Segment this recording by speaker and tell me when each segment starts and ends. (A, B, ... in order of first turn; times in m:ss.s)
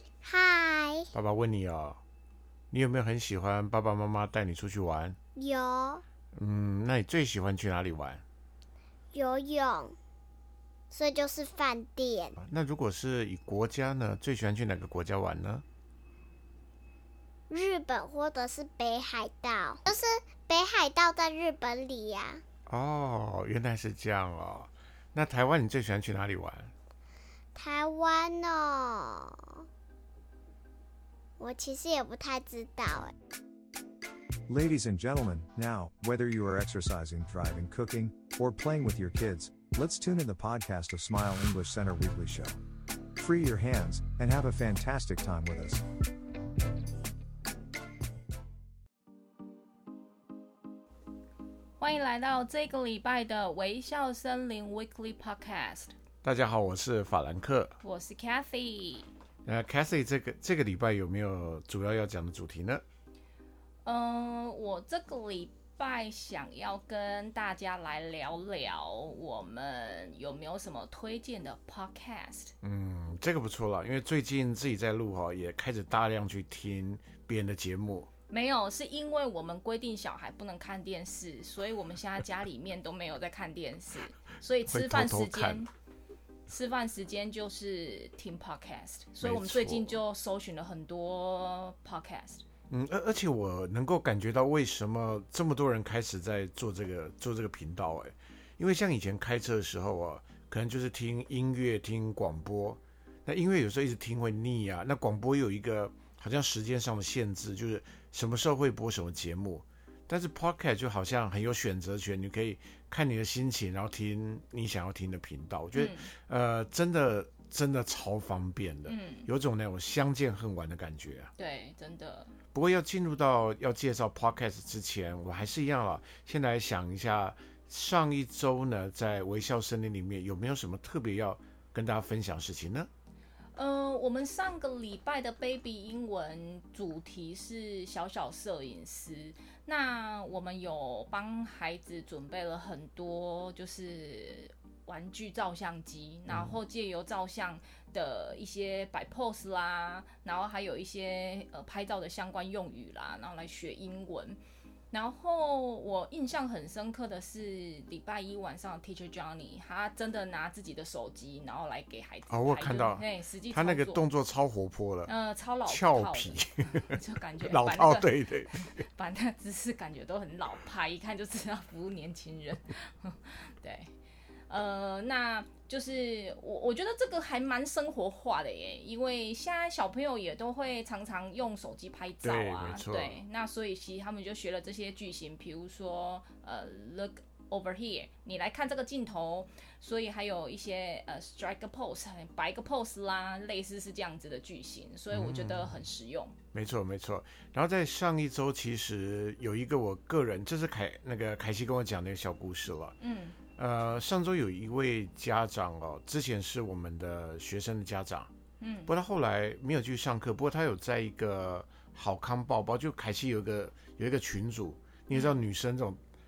0:00.2-0:01.1 A
0:01.1-0:02.0 B
0:02.7-0:05.2 B
0:05.4-0:06.0 A
0:06.3-0:08.2 B
0:09.1-0:10.0 A
0:10.9-0:12.4 A
0:12.4-0:15.6 B
0:17.5-0:22.4 A
0:22.7-0:26.7 B
0:27.5-0:29.5 A
0:31.4-0:33.1 A
0:34.5-0:42.6 C
0:43.2-0:45.8 C
0:51.8-0:55.9 D
0:56.2-0:57.8 B
0:57.8-0:59.1 D
0:59.4-1:02.8 B
1:03.8-1:12.5 D
1:12.6-1:18.1 B
1:18.3-1:25.7 D
1:24.7-1:25.6 B
1:26.5-1:32.4 D
1:29.2-1:30.0 B
1:32.7-2:01.3 B
1:55.7-1:56.1 D
1:58.9-1:59.3 D
2:01.4-2:02.3 D
2:02.5-2:12.9 B
2:13.6-2:34.4 D
2:26.3-2:26.6 B
2:34.9-2:44.0 D
2:42.3-2:45.1 B
2:45.1-2:53.9 D
2:45.7-2:48.8 B
2:54.5-3:16.3 D
3:02.2-3:03.2 B
3:15.1-3:15.7 B
3:16.5-3:23.0 B
3:23.0-3:23.4 D
3:23.6-3:28.3 B
3:28.6-3:28.9 D
3:28.9-3:36.0 B
3:35.1-3:35.4 D